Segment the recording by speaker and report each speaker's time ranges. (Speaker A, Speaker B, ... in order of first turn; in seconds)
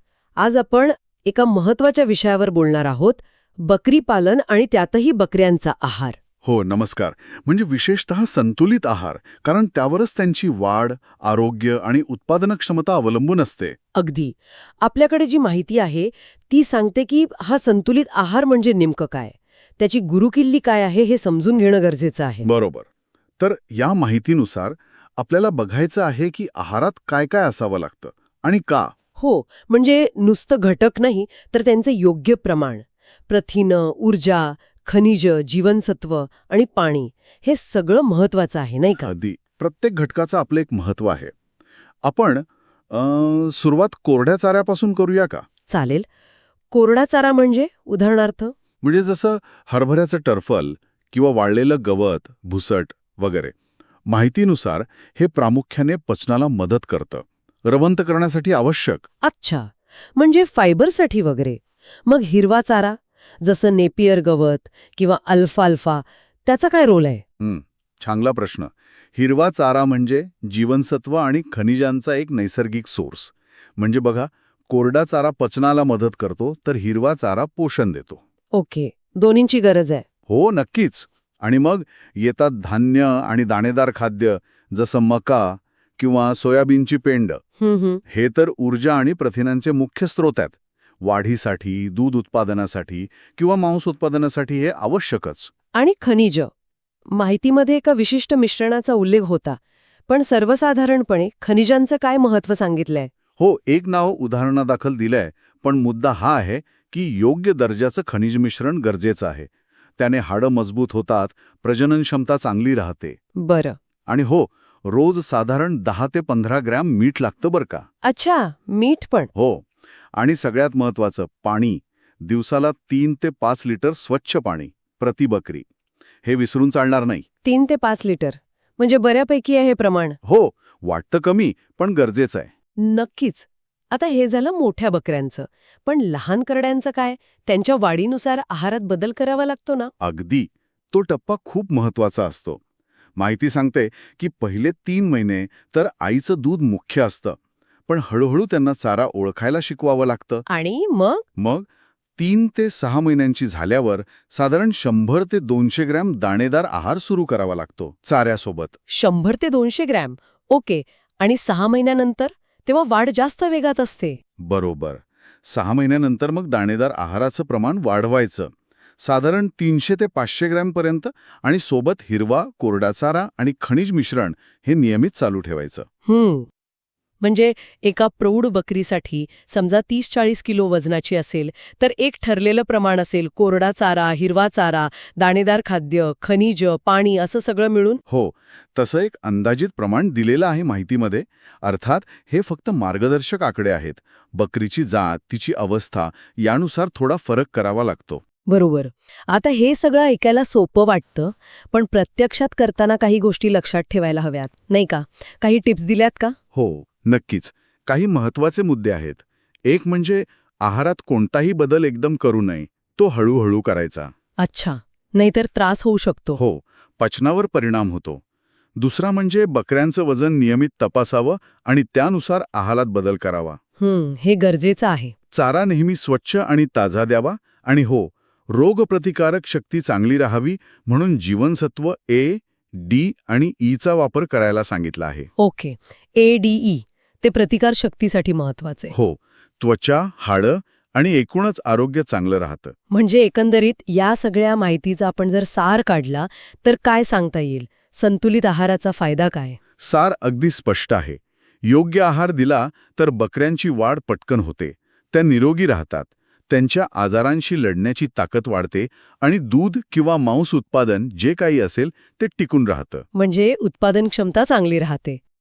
Speaker A: 0.4-6.2, 13.9-22.5, 29.1-39.1, 45.7-46.0, 46.7-48.5, 59.2-67.2, 78.5-80.0, 87.6-88.0, 95.7-96.5, 97.1-103.1, 113.4-113.8, 118.0-119.3, 127.4-130.2, 132.8-139.9, 150.5-151.2, 158.9-164.2, 176.1-176.5, 177.2-188.0, 198.5-206.3, 214.4-216.4, 223.8-225.1, 235.4-238.9, 242.9-249.6, 263.1-265.2
Speaker B: 6.4-13.8, 22.4-22.9, 23.4-28.9, 39.0-41.3, 42.0-45.4, 48.8-53.5, 54.1-59.0, 67.4-78.2, 80.3-87.4, 88.1-95.5, 103.4-113.2, 114.1-117.8, 119.3-119.6, 120.2-125.6, 126.2-127.2, 130.2-132.5, 140.0-142.6, 143.2-147.4, 147.9-150.4, 151.4-151.7, 152.2-158.8, 164.4-175.9, 188.1-198.2, 206.5-214.1, 216.4-218.2, 218.8-223.6, 225.3-235.3, 238.9-242.7, 249.8-263.1